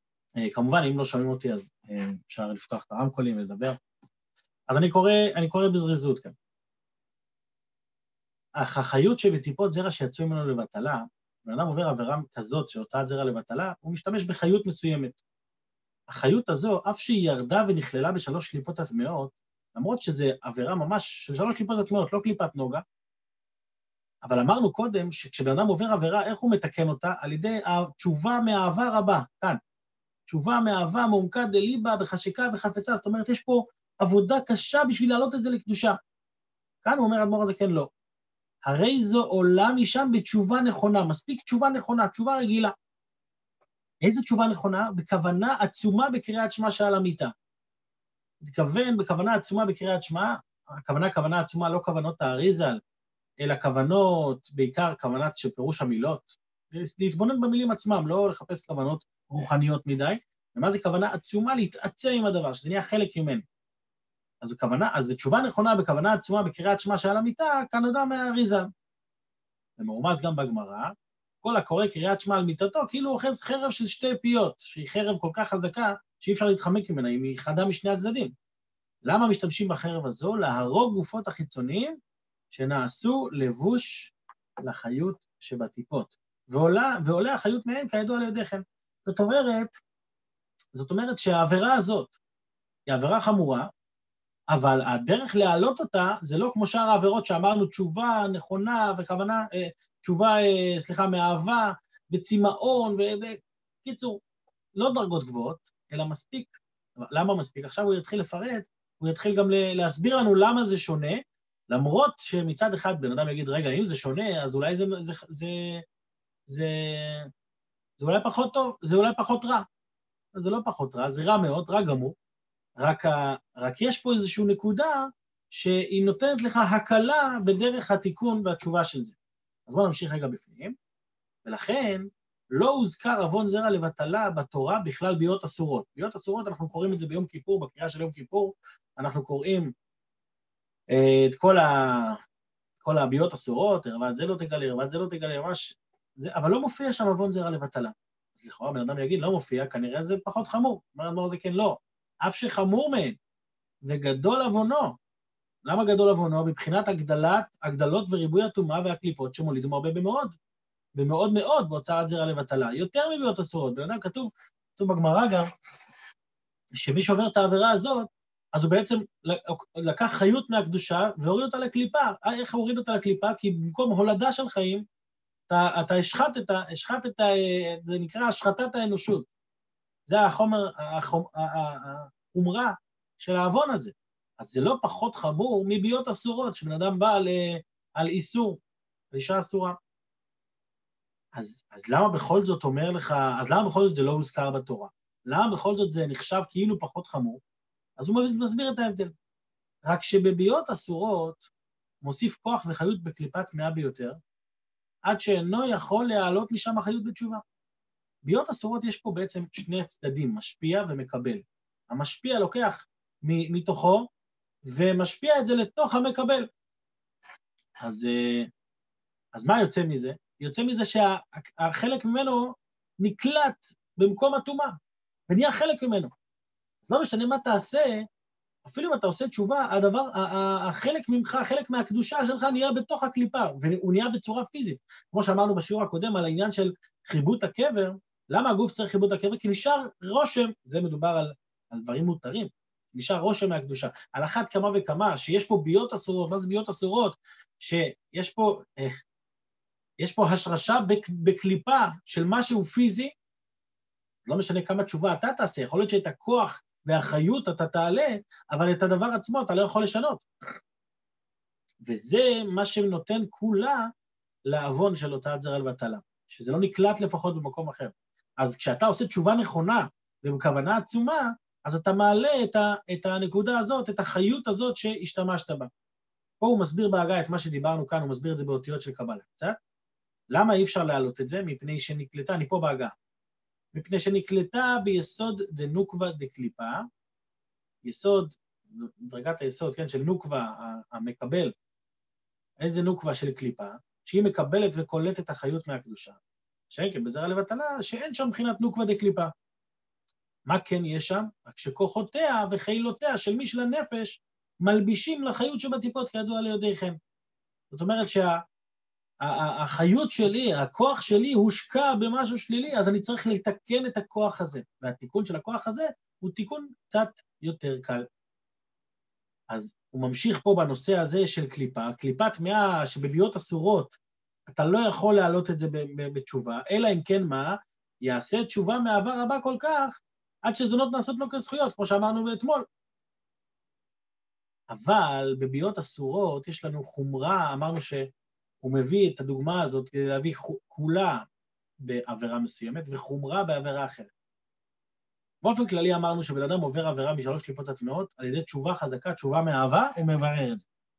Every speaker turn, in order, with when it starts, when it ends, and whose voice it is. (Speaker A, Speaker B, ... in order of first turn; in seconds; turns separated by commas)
Speaker A: 0.4-3.8, Speaker A: 4.7-6.3, Speaker A: 8.6-15.2, Speaker A: 16.1-22.8, Speaker A: 24.2-29.6, Speaker A: 30.3-36.0, Speaker A: 36.8-37.9, Speaker A: 38.6-42.7, Speaker A: 44.0-47.3, Speaker A: 48.4-52.8, Speaker A: 53.4-63.4, Speaker A: 64.4-68.7, Speaker A: 69.8-78.3, Speaker A: 79.0-82.0, Speaker A: 82.5-89.8, Speaker A: 90.7-92.2, Speaker A: 92.9-93.7, Speaker A: 94.5-104.2, Speaker A: 104.8-115.8, Speaker A: 116.5-117.3, Speaker A: 118.0-119.6, Speaker A: 120.3-122.1, Speaker A: 122.8-129.2, Speaker A: 129.7-130.8, Speaker A: 131.4-139.7, Speaker A: 140.9-142.2, Speaker A: 142.8-153.2, Speaker A: 153.8-155.0, Speaker A: 155.7-160.3, Speaker A: 160.9-165.5, Speaker A: 166.8-174.8, Speaker A: 175.5-179.3, Speaker A: 180.1-188.6, Speaker A: 189.1-189.8, Speaker A: 191.3-197.4, Speaker A: 198.0-199.1, Speaker A: 199.8-201.4, Speaker A: 202.0-204.2, Speaker A: 205.0-207.4, Speaker A: 208.2-214.1, Speaker A: 214.7-216.5, Speaker A: 217.8-218.5, Speaker A: 219.3-224.8, Speaker A: 225.3-226.1, Speaker A: 226.9-228.1, Speaker A: 228.6-249.0, Speaker A: 250.0-253.1, Speaker A: 254.2-260.2, Speaker A: 261.8-263.9, Speaker A: 264.5-275.7, Speaker A: 276.4-279.6, Speaker A: 280.3-282.9, Speaker A: 283.7-286.9, Speaker A: 287.8-291.5, Speaker A: 292.6-299.3, Speaker A: 300.5-307.0, Speaker A: 307.7-308.4, Speaker A: 309.2-318.0, Speaker A: 319.5-324.0, Speaker A: 324.5-332.6, Speaker A: 334.7-338.1, Speaker A: 338.6-341.2, Speaker A: 341.8-344.1, Speaker A: 345.4-350.6